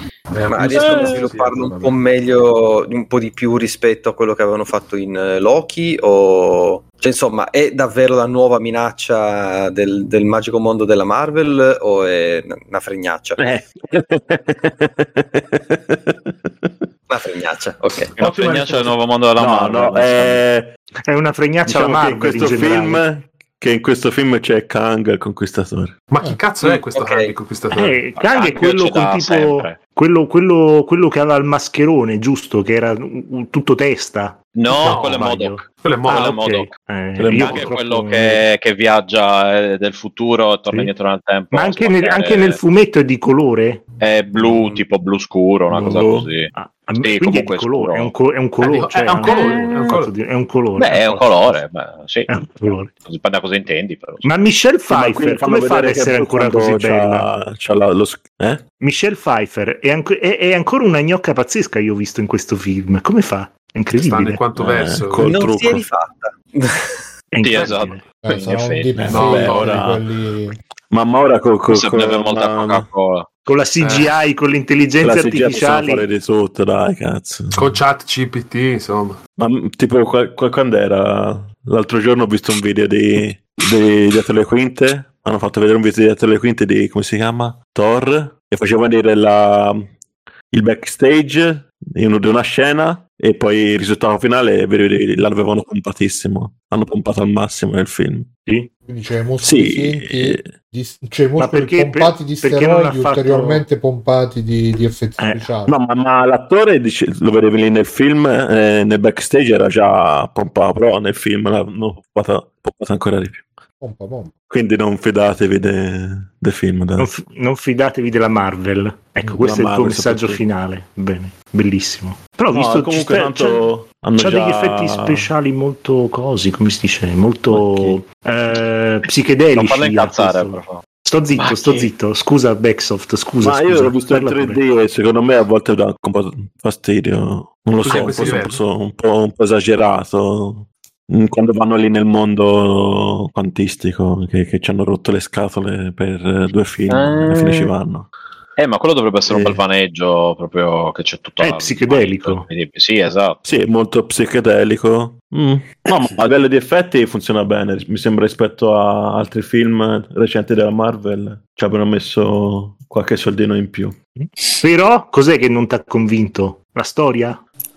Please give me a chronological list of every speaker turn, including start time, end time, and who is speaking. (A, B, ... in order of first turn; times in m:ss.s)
0:00.3-0:02.0 A
0:00.5-0:13.4 B
0:00.7-0:01.2 C
0:13.4-0:16.7 C
0:17.1-0:18.2 B
0:18.2-0:20.4 D
0:18.2-0:19.0 A
0:19.4-0:20.8 C
0:21.1-0:23.0 E
0:21.7-0:26.0 C
0:26.1-0:28.0 A
0:26.6-0:27.3 B
0:27.7-0:38.4 E
0:28.2-0:29.8 D
0:34.5-0:36.7 D
0:34.8-0:35.3 A
0:35.8-0:36.4 A
0:37.2-0:38.4 C
0:37.3-0:42.6 D
0:41.5-0:43.8 E
0:44.0-0:48.1 D
0:45.7-0:46.3 C
0:46.5-0:51.6 E
0:48.6-0:50.1 A
0:49.2-0:50.0 D
0:50.8-0:52.3 D
0:52.3-0:52.9 E
0:53.0-0:54.3 D
0:54.2-0:57.3 E
0:54.9-0:58.6 C
0:58.8-1:04.4 E
1:04.0-1:05.4 A
1:04.6-1:05.8 C
1:05.2-1:07.0 B
1:07.3-1:08.0 E
1:07.4-1:09.6 D
1:08.2-1:10.6 F
1:09.0-1:10.0 C
1:09.1-1:09.8 A
1:10.9-1:12.9 C
1:11.7-1:13.3 D
1:13.5-1:16.1 E
1:13.8-1:14.1 A
1:15.0-1:17.8 C
1:17.6-1:19.2 A
1:19.4-1:29.9 C
1:30.5-1:38.3 C
1:38.9-1:45.7 F
1:39.4-1:40.5 C
1:41.4-1:43.7 E
1:45.2-1:45.4 E
1:45.7-1:53.5 C
1:53.8-1:54.4 F
1:54.5-1:57.1 C
1:57.0-2:03.6 E
1:59.2-2:00.4 C
2:02.5-2:05.3 C
2:04.2-2:14.6 E
2:07.5-2:07.9 C
2:09.6-2:11.9 D
2:13.4-2:28.1 C
2:17.8-2:18.6 A
2:17.9-2:18.3 D
2:26.9-2:27.7 D
2:28.6-2:33.5 D
2:29.3-2:29.6 C
2:31.4-2:32.5 E
2:33.4-2:44.0 C
2:44.2-2:47.4 E